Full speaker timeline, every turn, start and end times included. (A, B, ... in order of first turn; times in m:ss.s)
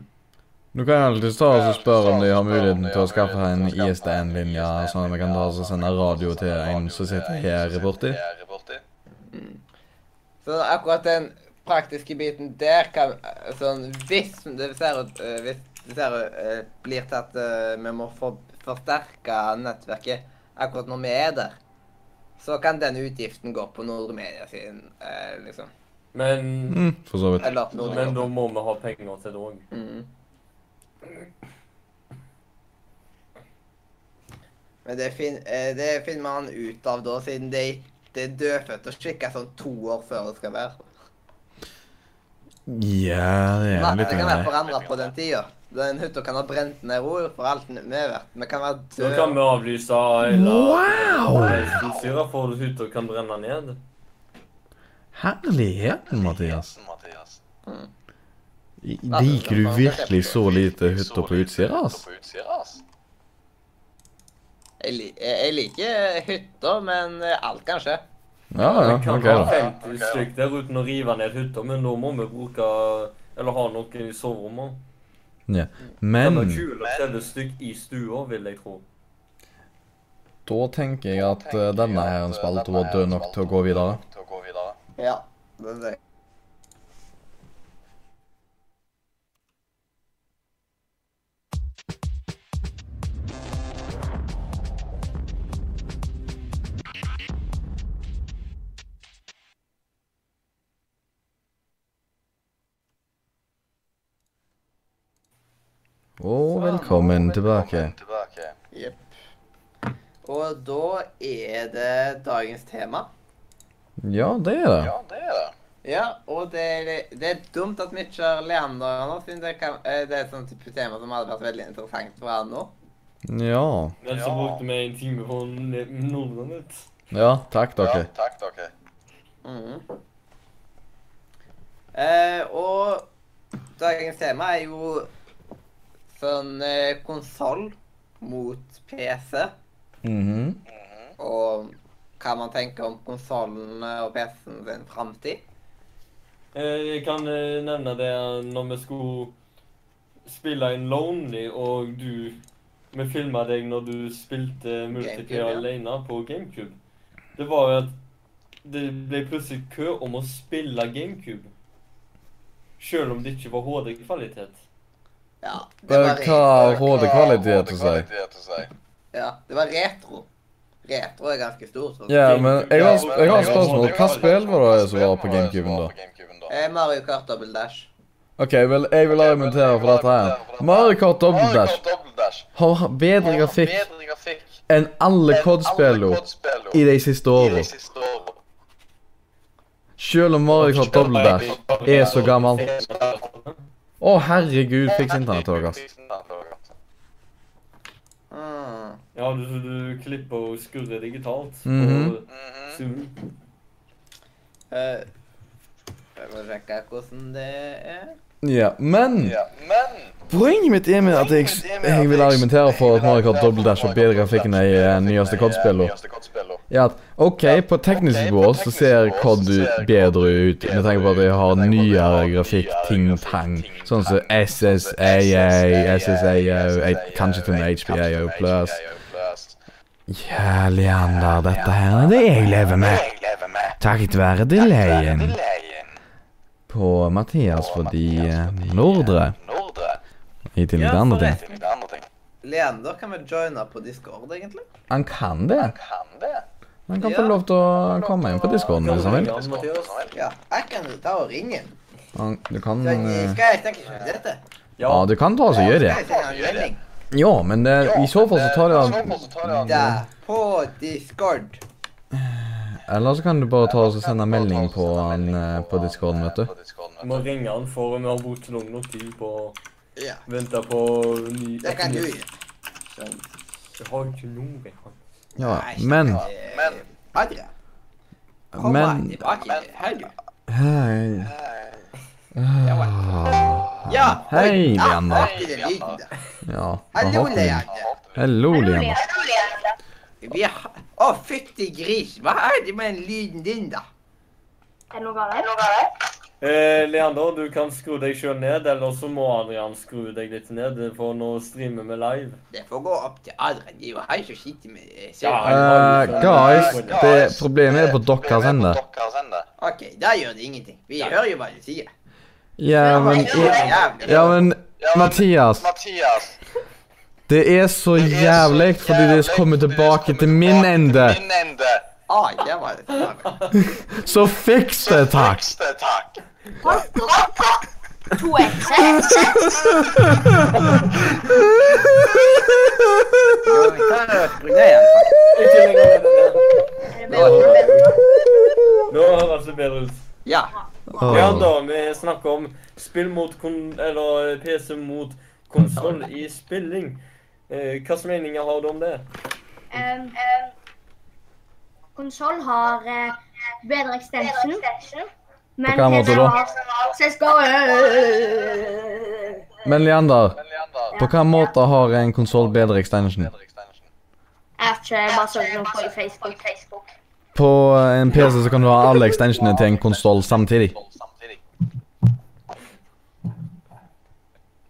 0:00.7-0:08.2 A
0:01.5-0:08.8 B
0:09.3-0:09.6 C
0:10.4-0:21.5 C
0:22.4-0:25.7 C
0:26.1-0:26.8 D
0:26.7-0:27.5 A
0:27.4-0:28.3 C
0:27.4-0:28.1 B
0:27.7-0:29.6 D
0:29.7-0:30.1 C
0:34.8-0:40.8 C
0:42.6-0:44.5 A
0:43.8-0:49.4 C
0:43.9-0:45.1 B
0:48.9-0:53.8 D
0:50.2-0:51.8 A
0:55.1-0:56.7 A
0:55.9-0:57.4 B
0:58.8-1:02.0 A
0:59.1-1:00.4 C
1:00.1-1:02.8 B
1:04.8-1:08.0 C
1:08.5-1:09.5 A
1:08.6-1:14.8 D
1:09.1-1:10.3 B
1:15.5-1:16.6 A
1:16.2-1:18.8 D
1:16.7-1:17.3 B
1:20.4-1:24.0 A
1:21.1-1:24.8 B
1:25.0-1:26.0 C
1:46.2-1:47.9 A
1:46.5-1:47.0 C
1:46.9-1:48.6 B
1:48.7-1:49.1 C
1:50.2-1:53.1 C
1:54.0-1:54.9 A
1:54.8-1:55.5 B
1:55.8-2:02.7 C
2:03.3-2:04.0 A
2:04.0-2:06.9 D
2:04.1-2:04.6 B
2:07.1-2:08.1 A
2:07.8-2:08.7 B
2:09.4-2:09.8 C
2:11.9-2:13.1 C
2:13.8-2:15.1 C
2:16.2-2:19.5 C
2:20.0-2:20.6 A
2:20.7-2:21.1 B
2:21.2-2:25.4 C
2:26.5-2:29.3 D
2:30.2-2:32.4 D
2:32.9-2:36.8 D
2:35.0-2:35.6 C
2:37.4-2:37.9 D
2:38.6-2:41.5 D
2:42.8-2:44.6 D
2:45.4-2:47.0 C
2:45.9-2:48.0 A
2:46.5-2:48.7 B
2:49.1-2:50.3 C
2:50.8-2:52.4 C
2:52.1-2:55.9 A
2:52.2-2:54.4 D
2:52.7-2:56.5 B
2:56.5-2:57.9 C
2:58.4-3:01.8 A
2:59.1-3:02.5 B
3:02.5-3:03.9 A
3:03.2-3:04.6 B
3:04.7-3:06.2 A
3:05.3-3:06.8 B
3:06.7-3:07.7 A
3:07.3-3:08.4 B
3:10.0-3:12.7 A
3:10.5-3:13.6 D
3:10.7-3:12.2 B
3:14.0-3:15.8 A
3:14.9-3:16.6 B
3:18.3-3:19.0 C
3:19.1-3:23.2 D
3:21.6-3:22.1 A
3:22.3-3:22.8 B
3:24.7-3:25.1 C
3:26.2-3:28.1 C
3:28.4-3:29.4 A
3:29.2-3:30.2 B
3:30.3-3:35.9 A
3:31.0-3:36.6 B
3:36.7-3:48.8 A
3:37.4-3:49.6 B
3:50.1-3:53.0 A
3:51.1-3:53.8 B
3:53.8-3:55.4 A
3:54.6-3:55.9 B
3:56.7-3:59.3 A
3:57.5-4:00.0 B
4:00.6-4:01.4 A
4:00.8-4:01.6 C
4:01.2-4:02.1 B
4:02.4-4:04.6 C
4:04.9-4:05.8 A
4:05.6-4:06.4 B
4:06.9-4:09.3 A
4:07.0-4:07.4 C
4:07.7-4:10.1 B
4:08.8-4:10.0 D
4:10.1-4:11.8 C
4:12.1-4:13.4 A
4:12.8-4:14.4 C
4:14.8-4:15.1 D
4:14.8-4:16.0 A
4:15.5-4:16.8 C
4:15.8-4:16.7 B
4:17.1-4:20.0 A
4:17.8-4:20.0 B
4:19.6-4:21.6 C
4:22.1-4:26.5 A
4:23.6-4:27.3 B
4:27.0-4:29.6 D
4:30.0-4:30.2 C
4:30.3-4:32.1 D
4:31.6-4:32.3 C
4:32.9-4:33.2 C
4:33.8-4:35.0 D
4:35.4-4:37.5 C
4:35.4-4:36.2 A
4:36.0-4:36.8 B
4:38.5-4:39.3 A
4:38.6-4:40.1 C
4:39.4-4:39.7 B
4:40.5-4:41.3 A
4:41.2-4:41.8 B
4:42.3-4:45.4 A
4:42.6-4:43.1 C
4:43.8-4:46.1 C
4:45.1-4:46.0 B
4:46.4-4:47.6 A
4:46.9-4:47.9 C
4:47.2-4:48.3 B
4:48.2-4:49.0 A
4:48.5-4:49.7 E
4:50.2-4:53.8 C
4:54.9-4:55.6 E
4:56.4-5:02.4 D
5:02.5-5:06.7 C
5:05.2-5:07.0 D
5:05.4-5:08.8 A
5:06.3-5:09.5 B
5:09.6-5:11.9 C
5:12.6-5:15.6 A
5:12.8-5:13.7 E
5:12.8-5:14.5 C
5:14.8-5:16.4 B
5:17.3-5:21.2 A
5:17.9-5:21.8 B
5:22.1-5:23.5 C
5:23.5-5:25.4 A
5:24.8-5:26.2 B
5:26.6-5:27.6 E
5:28.1-5:29.5 E
5:29.6-5:32.2 A
5:33.4-5:35.2 C
5:35.3-5:36.4 D
5:36.9-5:38.0 E
5:37.1-5:37.7 C
5:37.1-5:37.9 D
5:38.9-5:40.0 D
5:40.2-5:41.4 C
5:40.9-5:41.5 A
5:41.1-5:49.1 D
5:49.7-5:50.4 E
5:52.0-5:59.4 E
5:55.6-5:56.4 A
5:59.6-6:00.4 A
6:00.4-6:01.0 B
6:00.9-6:03.3 A
6:02.4-6:03.9 B
6:04.6-6:06.9 E
6:07.3-6:10.8 A
6:09.5-6:11.4 B